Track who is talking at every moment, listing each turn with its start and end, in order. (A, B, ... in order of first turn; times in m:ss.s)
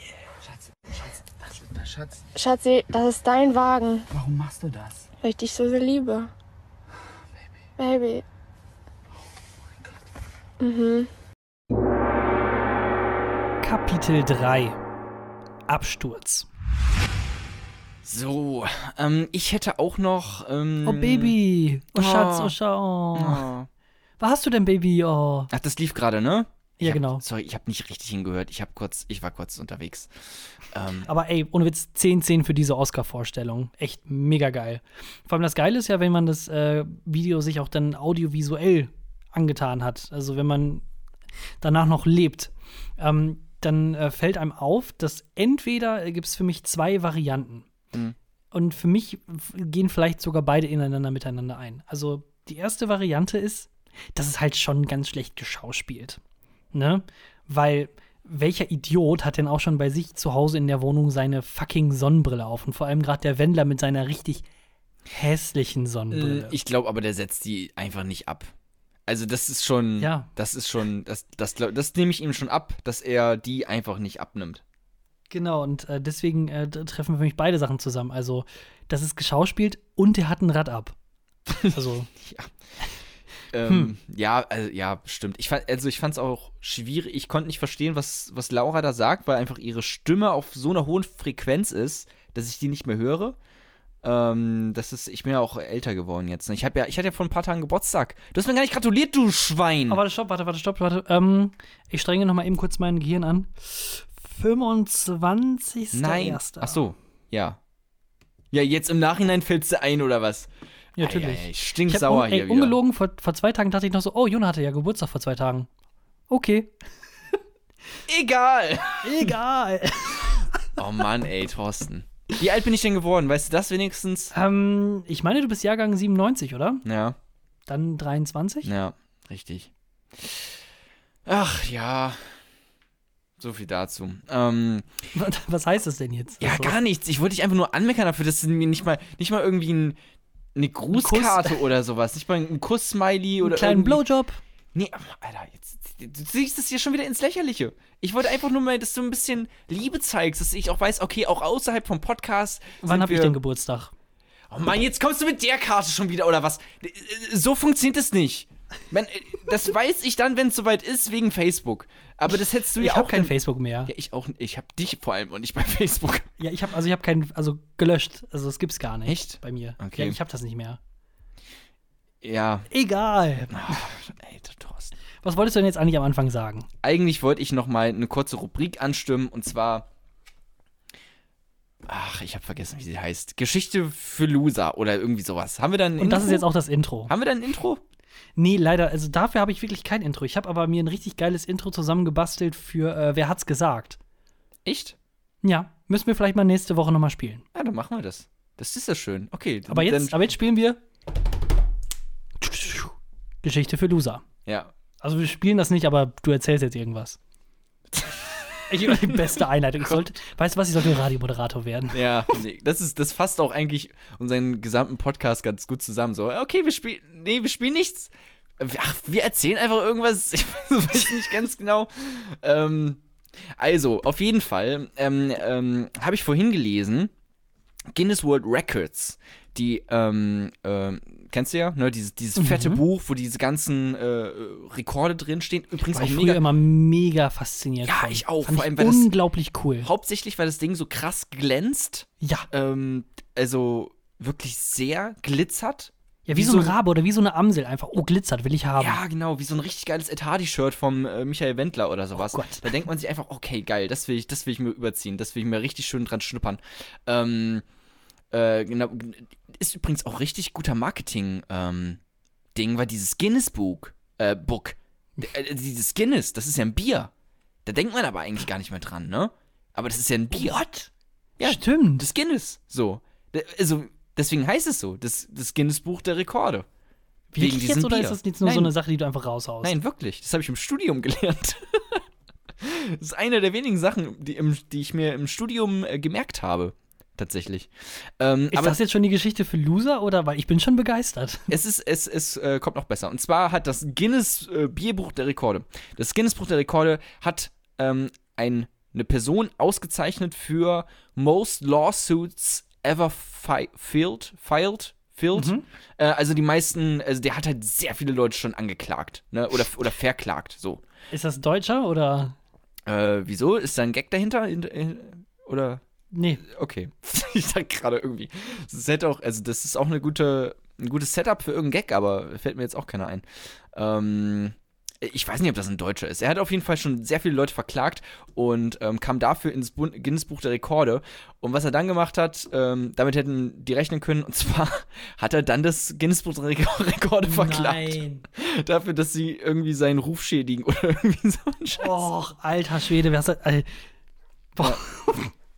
0:00.4-0:02.2 A
0:02.3-0:04.1 B
0:04.1-0:05.1 A
0:05.2-0:06.3 B
0:07.8-0:08.2 B
0:10.6-0:11.1 B
0:13.6-0:14.8 C
0:15.7-0:16.5 C
0:18.0-0:21.4 D
0:20.8-0:23.5 C
0:21.9-0:22.6 D
0:23.1-0:23.7 D
0:24.2-0:25.5 C
0:25.5-0:31.1 D
0:26.8-0:27.2 C
0:31.1-0:40.8 C
0:41.6-0:47.7 C
0:48.5-0:56.2 C
0:56.7-1:04.4 C
1:05.1-1:06.5 C
1:06.1-1:08.5 D
1:09.1-1:14.6 D
1:10.0-1:10.3 C
1:15.3-1:21.0 C
1:21.5-1:22.5 D
1:21.6-1:22.1 C
1:23.5-1:33.4 D
1:34.0-1:40.0 D
1:39.9-1:46.8 C
1:45.9-1:47.6 D
1:48.5-1:52.8 D
1:51.0-1:55.7 C
1:56.3-1:56.7 C
1:58.1-1:59.4 D
1:59.0-2:00.7 C
2:00.8-2:04.3 D
2:04.3-2:06.8 C
2:06.8-2:07.2 D
2:07.7-2:08.7 C
2:08.6-2:10.6 D
2:11.2-2:12.4 D
2:13.4-2:15.1 D
2:15.1-2:16.7 C
2:16.4-2:20.0 D
2:20.5-2:24.0 D
2:20.9-2:21.6 C
2:23.4-2:24.4 C
2:24.7-2:33.4 D
2:32.8-2:33.9 C
2:34.5-2:43.3 D
2:42.7-2:43.9 C
2:43.9-2:46.3 D
2:46.4-2:50.8 C
2:49.0-2:50.2 D
2:52.2-2:52.7 D
2:52.7-2:53.8 C
2:53.5-2:54.9 D
2:55.2-2:56.7 C
2:56.8-2:59.9 D
3:01.9-3:06.5 D
3:06.0-3:07.1 C
3:07.1-3:07.8 D
3:08.4-3:14.0 C
3:14.6-3:15.0 D
3:15.4-3:17.4 C
3:17.5-3:20.2 D
3:19.7-3:20.8 C
3:22.4-3:24.2 C
3:24.4-3:24.7 D
3:25.0-3:27.2 C
3:27.9-3:30.0 D
3:28.7-3:32.1 C
3:31.9-3:47.1 D
3:47.9-3:56.4 D
3:52.4-3:52.8 C
3:55.9-3:59.9 C
3:57.8-3:59.1 D
3:59.8-4:06.8 D
4:02.2-4:02.5 C
4:06.3-4:09.0 C
4:08.8-4:17.6 D
4:12.2-4:12.7 C
4:18.3-4:22.0 D
4:22.5-4:27.1 D
4:27.6-4:30.6 D
4:30.3-4:30.9 C
4:31.4-4:36.6 D
4:31.4-4:32.1 C
4:37.3-4:39.8 C
4:37.4-4:38.7 D
4:39.6-4:42.0 D
4:42.6-4:48.8 D
4:48.5-4:51.5 C
4:51.5-5:10.8 D
5:05.3-5:05.6 C
5:11.1-5:12.3 C
5:12.8-5:15.8 D
5:16.1-5:16.4 C
5:16.4-5:42.0 D
5:37.3-5:38.2 C
5:41.8-5:43.8 C
5:44.6-5:45.3 C